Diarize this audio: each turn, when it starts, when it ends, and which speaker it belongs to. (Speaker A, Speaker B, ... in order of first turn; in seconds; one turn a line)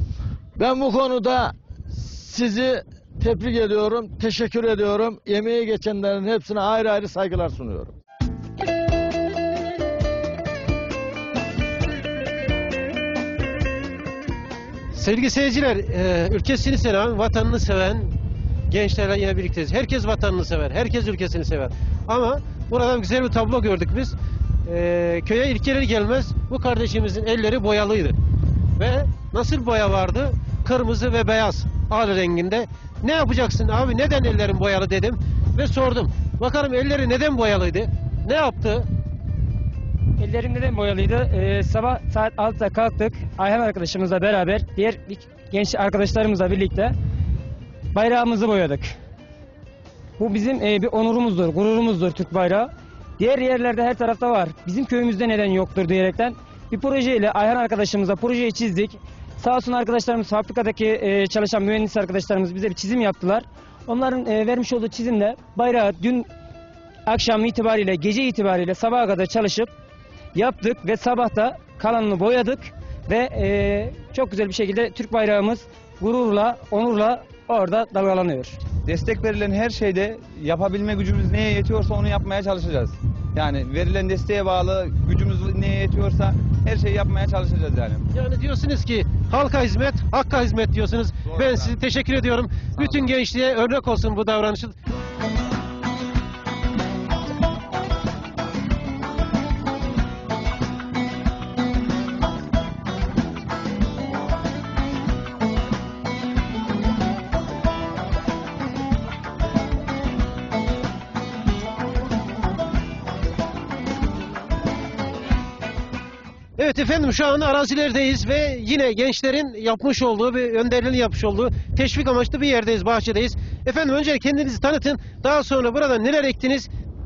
Speaker A: 0.6-7.9
Speaker B: 14.9-18.1
Speaker B: 18.7-28.2
Speaker B: 28.8-38.9
Speaker C: 40.2-47.0
Speaker C: 47.9-49.0
Speaker C: 50.2-66.3
Speaker C: 67.1-69.7
Speaker C: 70.3-78.6
Speaker D: 78.8-88.1
Speaker B: 88.1-94.8
Speaker D: 91.3-91.8
Speaker B: 116.6-126.7